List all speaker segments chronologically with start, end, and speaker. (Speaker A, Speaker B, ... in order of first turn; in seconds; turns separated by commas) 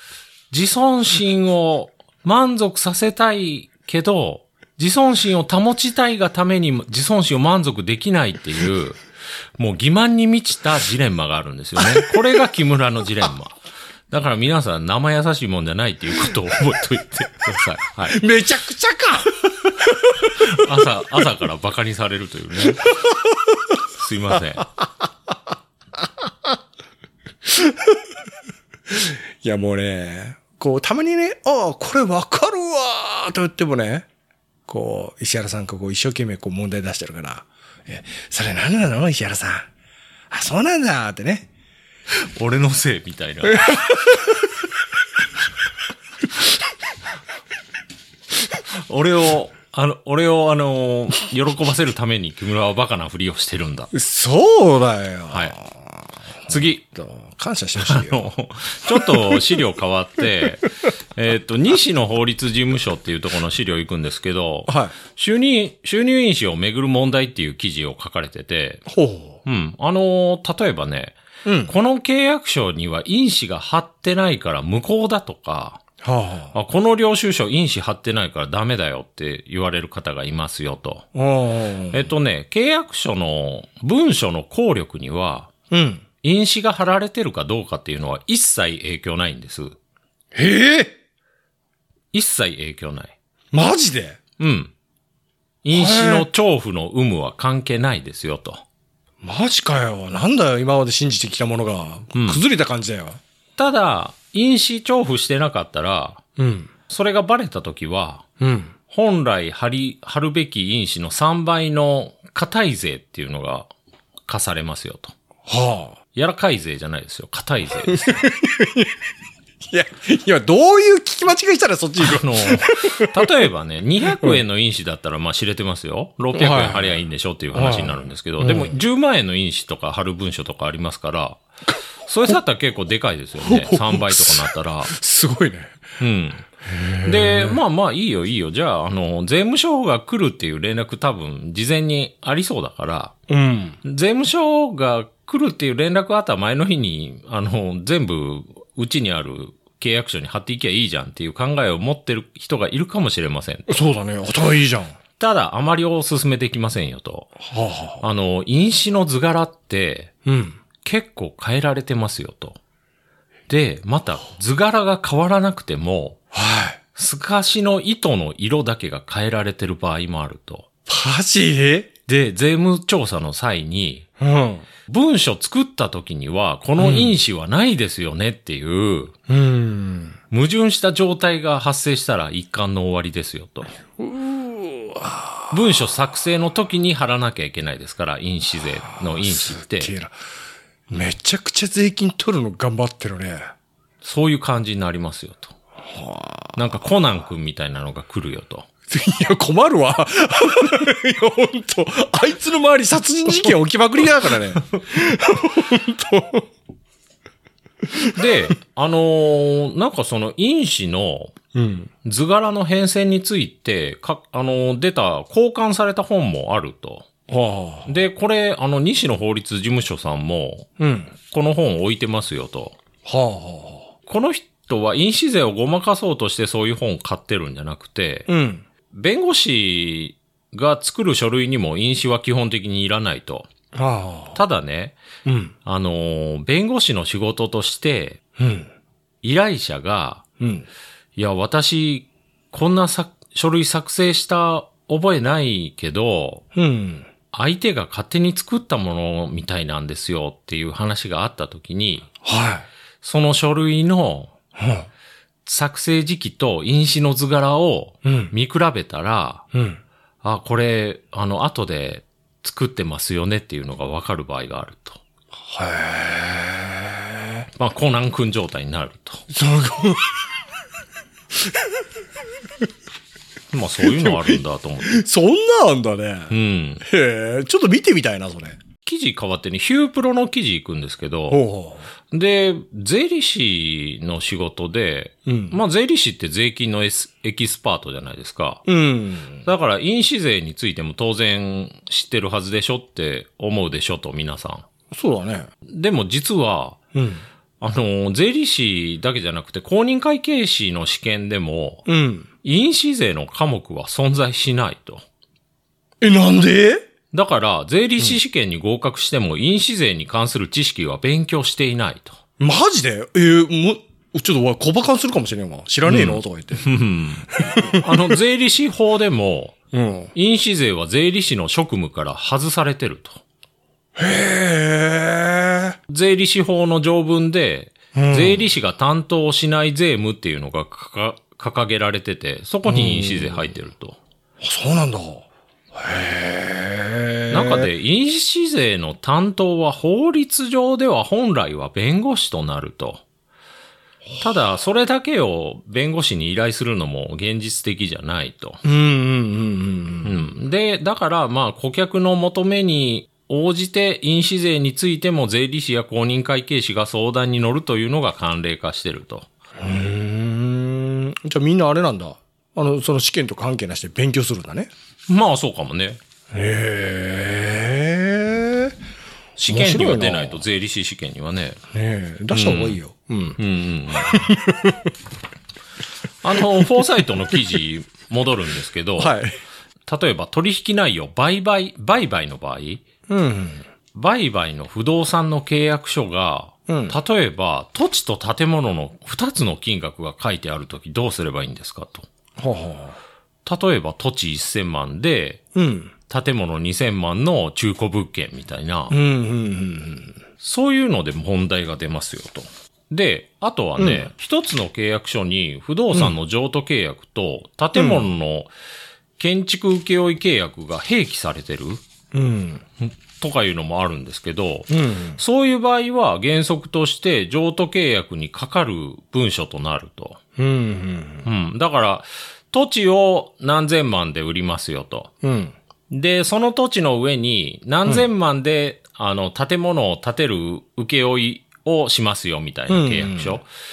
Speaker A: 0.5-9.0, Speaker A: 9.6-13.6, Speaker B: 11.8-12.1, Speaker A: 14.1-18.2, Speaker B: 18.1-20.7, Speaker A: 20.3-23.0, Speaker B: 22.6-23.8, Speaker A: 23.9-24.7, Speaker B: 24.6-24.9, Speaker B: 26.0-26.3, Speaker B: 27.4-28.1, Speaker B: 28.9-34.1, Speaker B: 34.7-39.7, Speaker B: 40.3-41.5, Speaker A: 42.3-43.9, Speaker B: 43.5-44.5, Speaker A: 48.8-53.9, Speaker B: 53.9-58.3, Speaker A: 55.3-55.5, Speaker A: 56.5-56.8, Speaker A: 57.8-68.8, Speaker B: 58.8-59.6, Speaker B: 64.7-64.9, Speaker B: 68.9-69.4, Speaker A: 69.4-75.8, Speaker B: 71.4-71.7, Speaker B: 76.0-76.5, Speaker A: 76.5-81.1, Speaker B: 81.1-82.1, Speaker A: 81.9-85.5, Speaker B: 85.7-86.0, Speaker A: 86.2-89.8, Speaker B: 90.3-90.9, Speaker A: 92.1-93.1, Speaker B: 93.5-94.2, Speaker A: 94.4-94.7, Speaker A: 95.6-98.6, Speaker B: 95.7-96.3, Speaker B: 99.2-103.2, Speaker A: 102.1-102.4, Speaker A: 103.6-106.2, Speaker B: 106.4-106.7, Speaker A: 106.9-108.2, Speaker B: 108.4-108.7, Speaker A: 108.9-113.7, Speaker A: 114.3-115.1, Speaker B: 115.5-116.0, Speaker A: 116.1-118.3, Speaker B: 117.8-119.0, Speaker B: 119.7-123.3, Speaker A: 122.0-131.4, Speaker B: 124.1-124.4, Speaker B: 126.3-127.0, Speaker B: 127.5-128.8, Speaker A: 132.0-134.9, Speaker B: 133.4-135.8, Speaker A: 136.0-136.5, Speaker B: 136.6-137.6, Speaker A: 137.0-143.1, Speaker B: 143.3-143.8, Speaker A: 143.8-153.8, Speaker B: 153.7-154.9, Speaker A: 155.2-157.4, Speaker B: 157.4-158.0, Speaker A: 158.0-160.1, Speaker B: 160.2-160.6, Speaker A: 160.8-162.6, Speaker A: 163.5-166.2, Speaker B: 166.3-166.8, Speaker A: 166.9-170.7, Speaker B: 170.9-171.9, Speaker A: 172.1-174.1, Speaker B: 174.2-174.7, Speaker A: 174.9-179.2, Speaker B: 176.8-177.2, Speaker B: 179.3-180.2, Speaker A: 180.3-183.8, Speaker B: 184.0-185.9, Speaker A: 185.5-189.9, Speaker B: 188.9-190.1, Speaker B: 190.9-193.4, Speaker A: 194.0-195.6, Speaker B: 195.8-196.8, Speaker A: 196.6-198.7, Speaker B: 198.9-206.5, Speaker B: 207.9-208.2, Speaker A: 208.1-211.3, Speaker B: 211.5-211.9, Speaker A: 212.0-217.1, Speaker B: 217.3-217.9, Speaker A: 217.8-220.7, Speaker B: 220.8-221.1, Speaker A: 221.3-222.8, Speaker B: 223.1-223.9, Speaker A: 224.1-228.3, Speaker B: 228.3-228.6, Speaker A: 228.9-233.5, Speaker B: 233.7-234.4, Speaker A: 234.3-235.0, Speaker B: 235.2-235.5, Speaker A: 235.6-238.2, Speaker B: 238.4-238.7, Speaker A: 239.2-240.2, Speaker B: 240.4-240.7, Speaker A: 241.2-246.4, Speaker B: 246.6-247.1, Speaker A: 247.3-252.1, Speaker B: 252.2-252.7, Speaker A: 253.0-254.3, Speaker B: 254.6-254.9, Speaker A: 255.4-259.4, Speaker B: 258.1-258.3, Speaker B: 259.5-259.8, Speaker A: 260.2-265.0, Speaker B: 265.4-267.4, Speaker A: 267.6-269.2, Speaker B: 269.3-270.2, Speaker B: 271.4-271.7, Speaker A: 273.5-275.0, Speaker B: 273.8-278.6, Speaker A: 276.3-276.8, Speaker A: 278.8-281.4, Speaker B: 281.3-281.9, Speaker A: 282.1-288.6, Speaker B: 285.2-285.6, Speaker B: 288.7-289.5, Speaker A: 289.4-294.7, Speaker B: 294.9-295.5, Speaker A: 295.7-296.8, Speaker B: 296.9-297.2, Speaker A: 297.6-301.9, Speaker B: 301.9-302.3, Speaker A: 302.4-305.0, Speaker B: 306.0-306.8, Speaker A: 307.1-312.2, Speaker B: 312.4-316.7, Speaker A: 315.8-319.6, Speaker B: 317.4-318.1, Speaker B: 319.7-320.1, Speaker A: 320.1-323.2, Speaker B: 323.9-325.8, Speaker A: 325.9-334.0, Speaker B: 327.9-328.5, Speaker B: 332.7-333.5, Speaker B: 334.4-337.7, Speaker A: 337.3-343.0, Speaker A: 344.2-348.6, Speaker B: 348.6-350.2, Speaker A: 350.0-359.3, Speaker B: 359.6-364.7, Speaker A: 365.1-366.0, Speaker B: 366.3-368.8, Speaker A: 369.4-371.6, Speaker B: 369.5-370.4, Speaker B: 371.7-373.4, Speaker A: 372.3-372.8, Speaker A: 373.4-374.3, Speaker B: 373.9-374.9, Speaker A: 376.2-379.1, Speaker B: 376.4-377.6, Speaker B: 379.0-379.4, Speaker A: 379.9-382.8, Speaker B: 383.1-383.7, Speaker A: 383.9-392.1, Speaker B: 386.7-387.0, Speaker B: 392.4-393.0, Speaker A: 393.4-395.4, Speaker B: 395.6-395.9, Speaker A: 396.1-398.9, Speaker B: 398.9-400.2, Speaker A: 400.4-408.5, Speaker B: 403.8-404.1, Speaker B: 407.7-408.1, Speaker A: 409.2-411.8, Speaker B: 412.1-412.6, Speaker A: 412.8-420.2, Speaker B: 414.7-415.2, Speaker B: 420.4-421.2, Speaker A: 421.2-425.1, Speaker B: 425.2-425.5, Speaker A: 425.9-433.5, Speaker B: 432.7-433.4